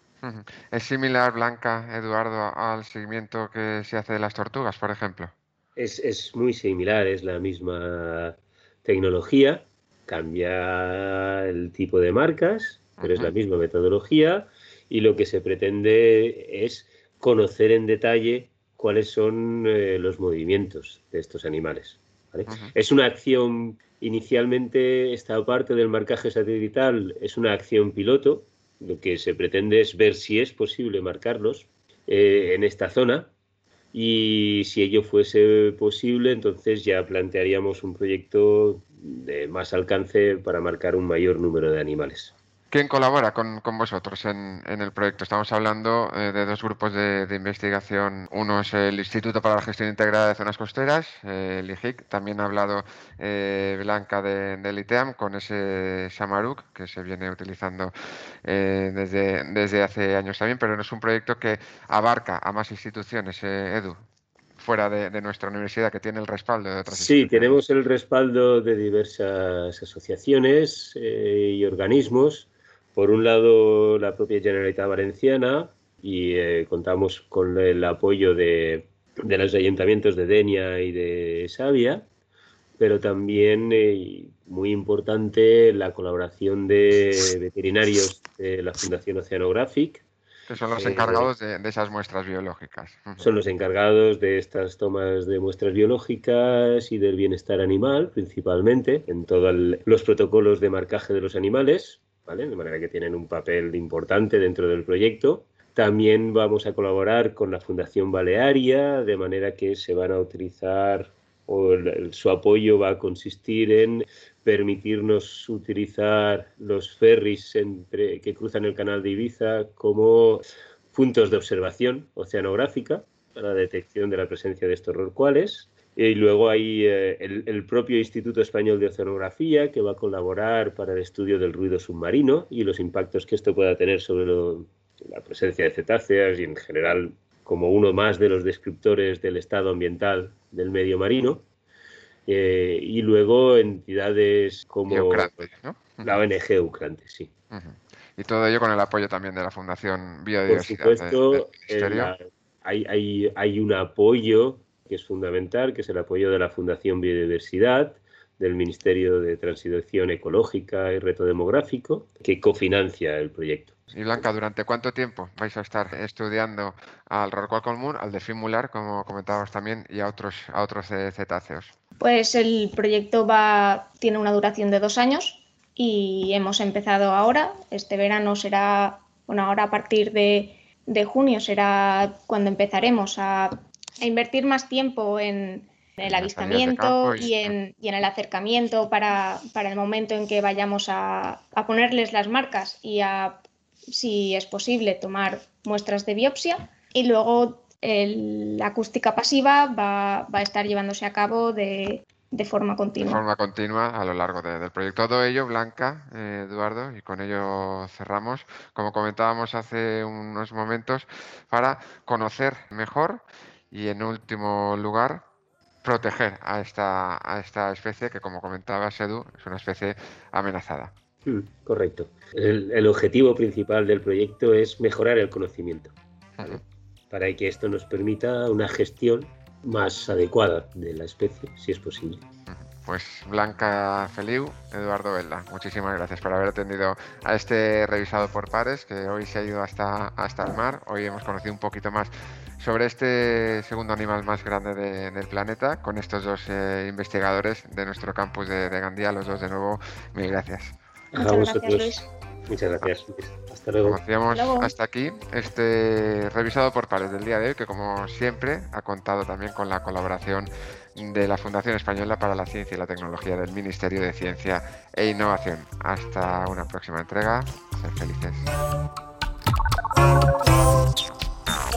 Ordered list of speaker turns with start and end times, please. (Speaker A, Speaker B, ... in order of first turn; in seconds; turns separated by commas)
Speaker A: 0.2-5.3, Speaker B: 5.8-33.3, Speaker A: 13.0-13.3, Speaker A: 22.5-22.7, Speaker B: 33.9-42.3, Speaker A: 42.7-57.9, Speaker A: 58.4-64.0, Speaker A: 64.6-67.6, Speaker B: 66.9-82.0, Speaker B: 82.8-90.0, Speaker A: 90.5-93.3, Speaker B: 90.7-91.3, Speaker B: 93.2-141.4, Speaker B: 142.3-145.5, Speaker A: 144.9-146.2, Speaker B: 146.0-147.3, Speaker A: 147.5-152.1, Speaker B: 150.5-163.7, Speaker A: 163.9-171.7, Speaker C: 172.0-203.2, Speaker A: 186.0-187.5, Speaker A: 203.0-215.2, Speaker A: 215.8-220.9, Speaker B: 221.2-232.2, Speaker A: 232.5-250.8, Speaker B: 251.1-254.0, Speaker C: 251.2-252.1, Speaker A: 253.8-268.5, Speaker C: 254.3-254.7